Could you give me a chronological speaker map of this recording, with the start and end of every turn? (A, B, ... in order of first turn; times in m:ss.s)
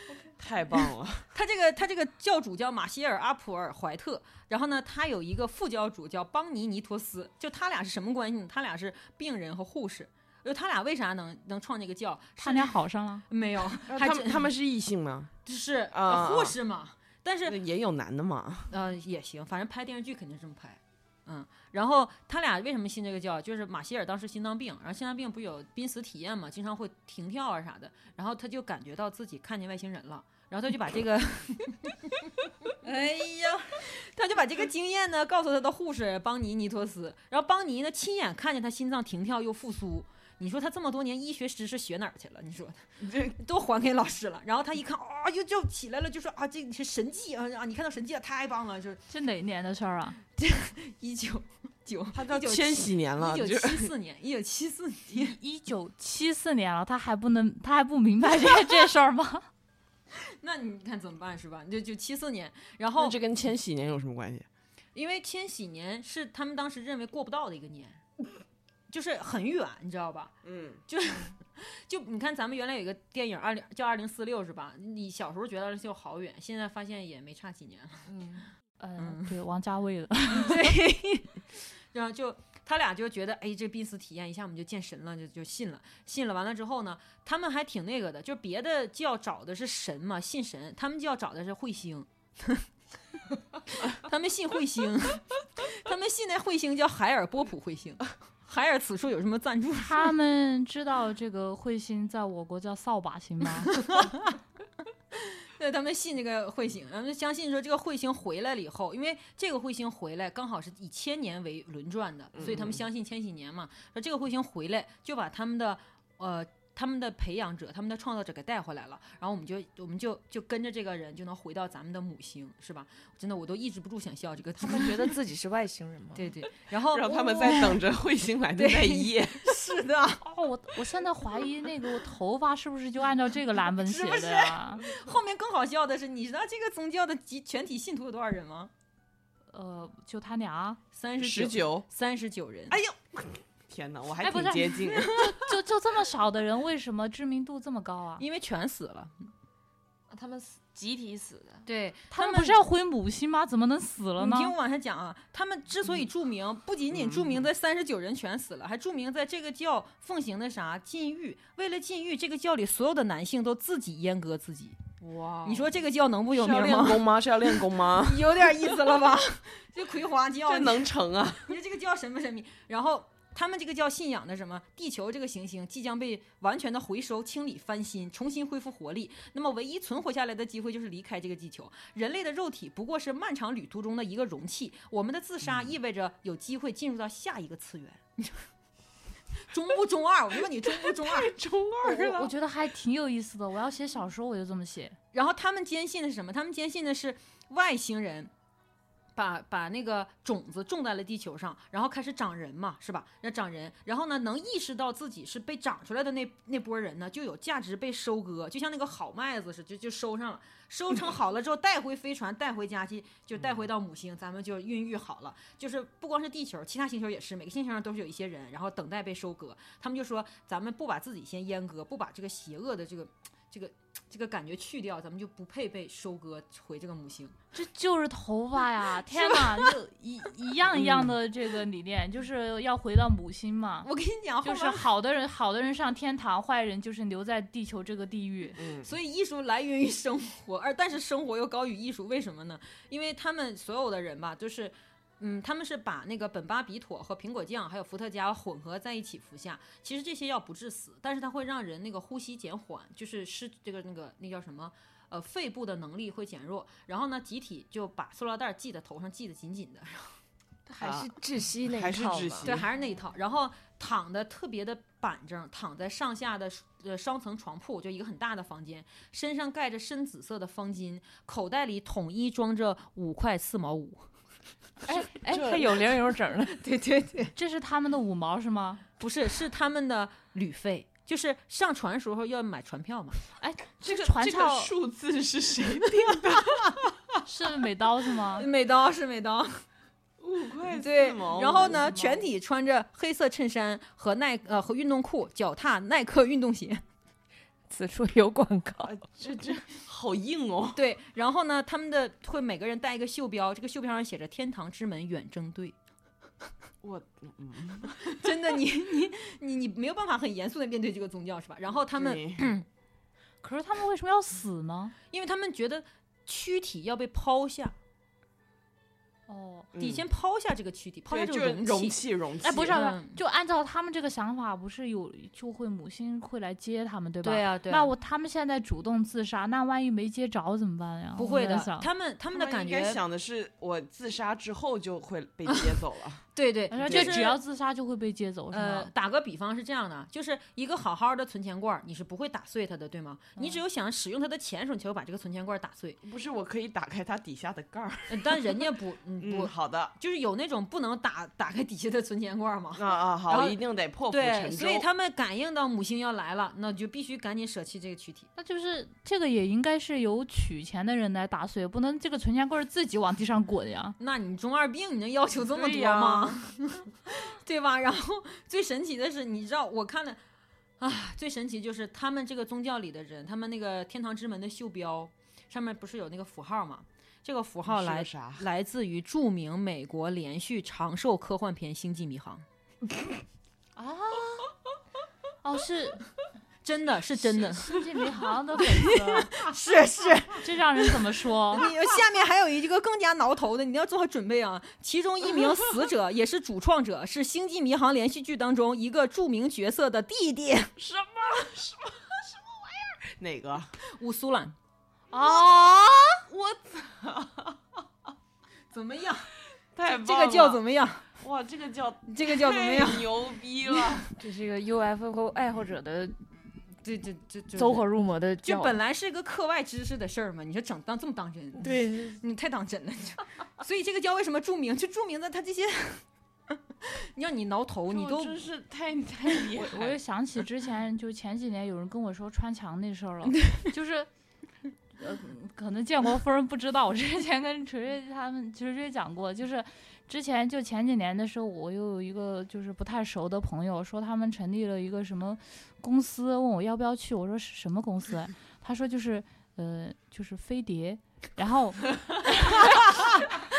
0:00.4-0:01.3 A
0:01.3-0:12.8 B
0:12.4-0:13.2 C
0:13.3-0:14.5 B
0:13.9-0:15.3 A
0:15.4-0:17.6 B
0:15.9-0:16.6 A
0:17.4-0:18.7 A
0:18.7-0:49.0 B
0:43.0-0:43.4 A
0:49.1-0:50.2 C
0:50.4-0:55.4 B
0:52.1-0:53.9 A
0:55.1-0:59.4 C
1:00.1-1:03.2 B
1:03.0-1:04.5 A
1:04.9-1:08.0 B
1:08.9-1:10.3 B
1:10.4-1:10.8 A
1:10.9-1:18.1 B
1:18.1-1:18.5 D
1:18.8-1:20.8 C
1:19.0-1:19.3 B
1:20.3-1:32.6 B
1:33.7-1:40.1 B
1:39.8-1:43.7 C
1:43.7-1:44.4 B
1:45.1-2:05.2 B
1:52.4-1:52.8 A
2:04.6-2:06.4 D
2:06.1-2:07.8 B
2:06.8-2:09.5 A
2:08.6-2:10.2 B
2:10.2-2:14.8 C
2:13.8-2:18.7 B
2:19.5-2:20.8 C
2:20.9-2:22.8 B
2:21.2-2:21.8 A
2:22.7-2:25.1 A
2:24.2-2:28.2 C
2:24.9-2:25.3 B
2:28.2-2:29.3 B
2:30.1-2:31.7 D
2:31.6-2:32.6 B
2:32.1-2:34.5 C
2:34.2-2:44.8 B
2:36.9-2:37.4 A
2:45.0-2:45.7 D
2:45.4-2:50.9 B
2:46.3-2:48.7 A
2:50.4-2:51.6 A
2:51.4-3:08.4 B
3:05.5-3:05.7 A
3:09.4-3:11.3 B
3:10.7-3:12.3 A
3:12.0-3:15.0 C
3:15.1-3:18.3 B
3:19.2-3:47.4 B
3:47.5-3:53.9 C
3:49.1-3:49.7 B
3:50.7-3:51.1 A
3:53.8-3:54.9 B
3:54.4-3:58.6 C
3:58.6-3:58.9 A
3:58.8-4:20.2 B
4:20.7-4:22.6 D
4:20.8-4:21.1 A
4:21.7-4:22.7 A
4:22.4-4:34.0 B
4:34.9-4:36.7 D
4:34.9-4:35.8 A
4:36.6-4:37.3 B
4:37.4-4:38.8 C
4:39.0-4:43.2 B
4:43.4-4:44.7 C
4:43.8-4:46.7 A
4:47.2-4:48.5 C
4:48.4-4:49.6 B
4:50.2-4:51.8 A
4:50.7-4:56.8 B
4:51.6-4:52.3 C
4:57.7-4:58.9 D
4:58.8-5:00.8 A
5:00.7-5:05.7 B
5:06.8-5:08.3 A
5:08.0-5:12.6 B
5:11.9-5:12.5 A
5:13.4-5:14.9 C
5:15.1-5:17.7 B
5:19.3-5:19.7 C
5:19.7-5:20.0 A
5:19.8-5:23.2 B
5:21.1-5:22.8 A
5:22.4-5:31.9 C
5:27.2-5:27.9 B
5:31.2-5:33.0 B
5:32.3-5:36.2 A
5:35.4-5:35.8 B
5:36.3-5:37.4 B
5:36.7-5:38.9 C
5:36.9-5:37.2 A
5:38.5-5:46.0 B
5:46.0-5:48.6 A
5:48.1-5:53.6 B
5:49.2-5:49.9 A
5:52.8-5:54.9 A
5:54.1-5:58.3 B
5:58.4-6:04.0 C
6:04.0-6:10.2 B
6:05.5-6:06.4 A
6:10.8-6:22.4 B
6:17.6-6:18.4 A
6:23.8-6:24.5 C
6:25.4-6:26.0 C
6:26.6-6:27.8 B
6:27.4-6:29.4 C
6:28.6-6:30.5 B
6:30.3-6:31.7 C
6:31.5-6:40.7 B
6:40.8-6:43.8 A
6:43.8-6:44.6 B
6:45.1-6:47.6 A
6:48.7-6:49.3 B
6:49.7-6:50.6 A
6:49.8-6:51.1 B
6:51.2-6:54.1 A
6:52.1-6:53.2 B
6:54.2-6:56.2 D
6:56.8-6:57.8 B
6:57.5-6:58.8 D
6:58.4-7:08.4 B
7:01.6-7:02.2 D
7:07.9-7:10.0 A
7:09.6-7:14.1 C
7:14.9-7:33.1 C